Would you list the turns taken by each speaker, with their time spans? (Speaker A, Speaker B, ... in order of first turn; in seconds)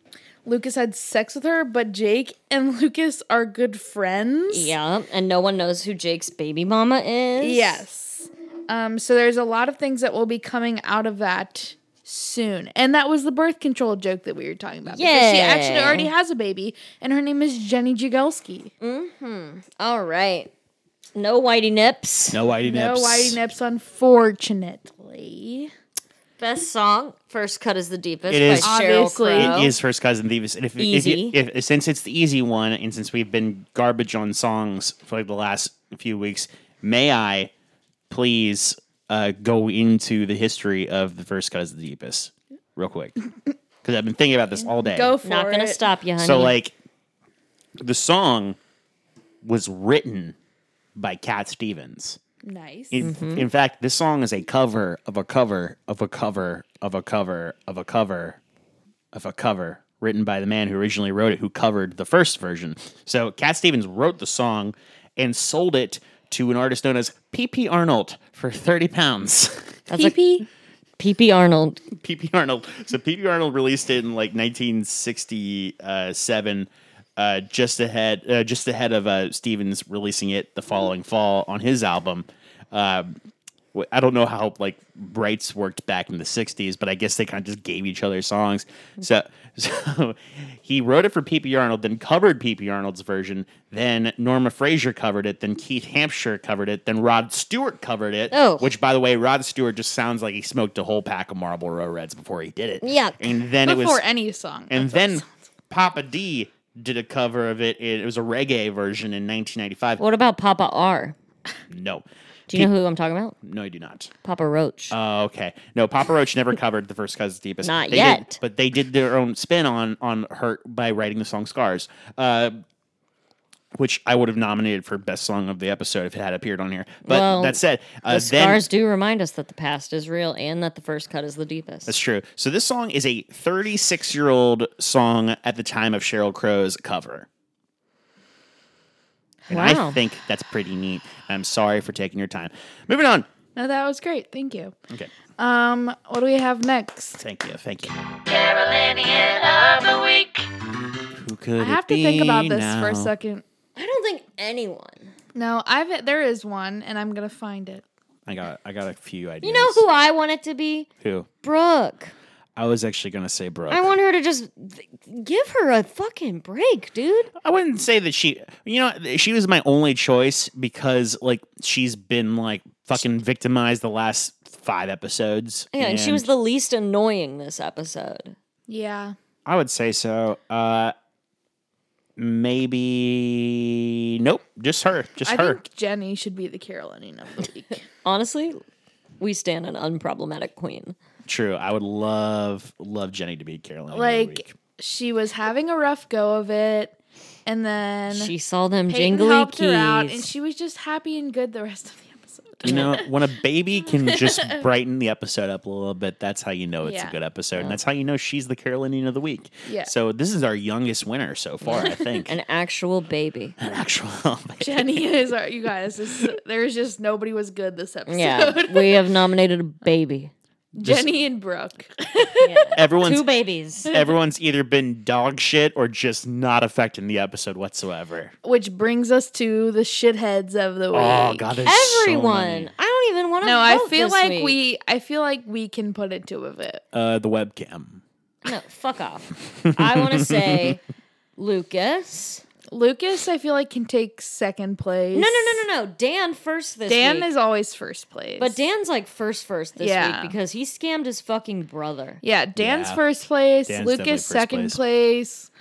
Speaker A: 0.4-4.7, 7.4-18.7, 22.6-25.7, 28.6-29.7, 44.8-45.8, 52.4-53.1, 69.9-70.5, 103.6-105.3, 143.6-144.7, 145.4-147.2, 148.3-150.4, 151.6-153.4, 155.3-157.8, 178.7-179.1, 185.2-187.8, 193.9-198.3, 198.9-203.0, 203.9-204.6, 206.8-207.1, 209.7-209.9, 211.8-212.0, 214.6-219.0, 220.7-222.8, 228.4-231.6, 233.4-236.8, 242.7-245.6, 246.9-248.6, 249.8-250.3, 252.2-255.5
Speaker B: 4.5-7.8, 14.9-16.1, 18.8-20.5, 21.1-22.4, 26.4-29.7, 30.8-31.4, 45.2-46.5, 53.0-53.5, 69.9-70.3, 71.0-71.9, 98.3-98.7, 102.8-103.2, 110.0-111.1, 112.5-113.3, 114.2-114.9, 117.6-118.4, 127.0-127.6, 128.1-131.9, 139.5-140.0, 149.1-149.9, 153.8-155.1, 159.4-160.9, 161.4-162.1, 163.7-167.3, 175.7-178.3, 188.0-188.6, 189.2-190.9, 198.1-200.3, 202.6-202.9, 211.7-213.6, 218.1-220.3, 222.4-223.9, 231.7-234.6, 238.4-240.8, 241.4-242.4, 245.1-247.3, 248.4-252.2
Speaker C: 22.3-23.4, 28.3-28.7, 29.3-37.5, 38.1-43.2, 43.8-45.1, 46.2-46.7, 47.8-48.6, 49.4-50.4, 50.9-52.2, 52.9-58.4, 59.1-69.7, 71.9-83.2, 83.7-104.0, 104.7-110.0, 111.7-112.7, 113.4-114.1, 114.9-122.6, 123.7-128.6, 131.8-137.3, 139.5-143.3, 147.2-147.9, 151.2-153.1, 158.2-159.8, 161.0-161.3, 162.6-163.9, 167.4-176.3, 179.4-180.9, 182.2-185.6, 191.2-194.5, 202.6-212.3, 213.6-215.0, 220.8-221.1, 222.8-223.2, 223.9-228.3, 230.9-232.7, 236.9-238.0, 239.6-240.8, 252.6-253.0, 253.7-254.8